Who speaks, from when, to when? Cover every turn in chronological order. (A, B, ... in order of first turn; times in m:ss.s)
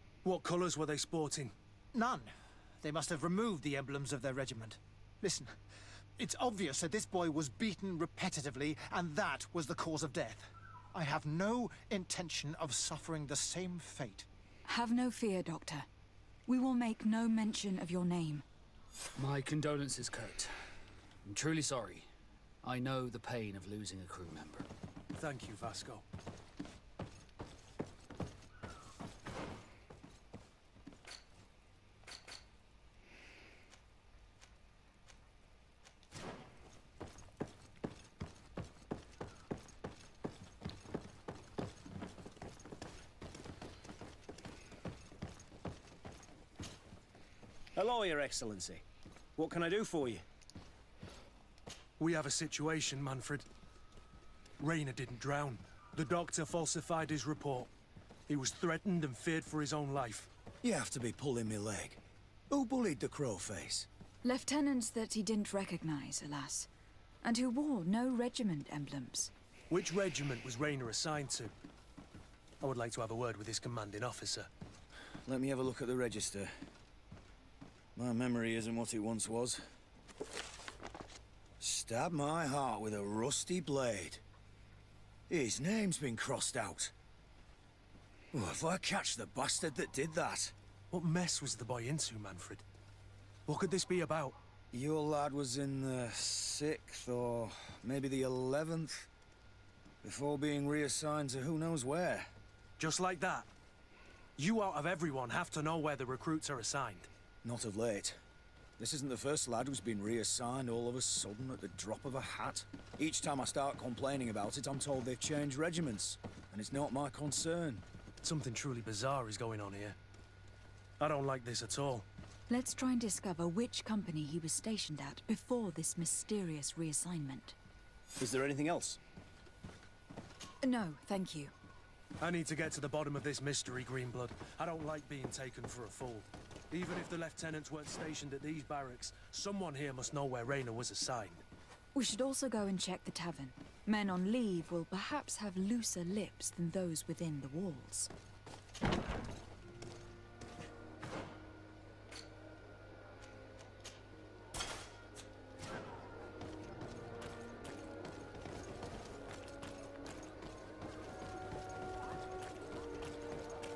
0:00.2-0:01.5 A
0:01.9-0:05.6 B
0:06.2-0:14.3 B
0:14.7-0:15.9 C
0:16.5-0:18.4 C
0:19.2-0:20.5 D
0:21.2-0:22.1 D
0:22.6-0:24.7 D
0:25.1-0:26.0 A
0:47.8-0:48.8 E
0:49.4-0:50.2 E
0:52.0-0:53.4 A
0:54.6-0:57.7 A
0:58.3-1:00.3 A
1:00.6-1:03.9 F
1:04.2-1:06.7 C
1:07.2-1:09.3 C
1:09.7-1:11.5 A
1:12.6-1:14.5 A
1:15.2-1:16.5 F
1:17.9-1:19.6 F
1:21.6-1:24.2 F
1:25.3-1:26.9 F
1:28.3-1:30.5 F
1:30.9-1:32.6 A
1:33.5-1:34.4 A
1:34.7-1:39.1 F
1:40.0-1:42.3 F
1:42.8-1:43.5 A
1:44.4-1:47.1 A
1:47.4-1:48.2 F
1:48.8-1:57.8 F
1:58.2-2:00.0 A
2:01.0-2:02.0 A
2:02.5-2:07.6 C
2:08.2-2:09.0 E
2:10.6-2:11.5 C
2:12.2-2:21.4 A
2:21.9-2:28.1 C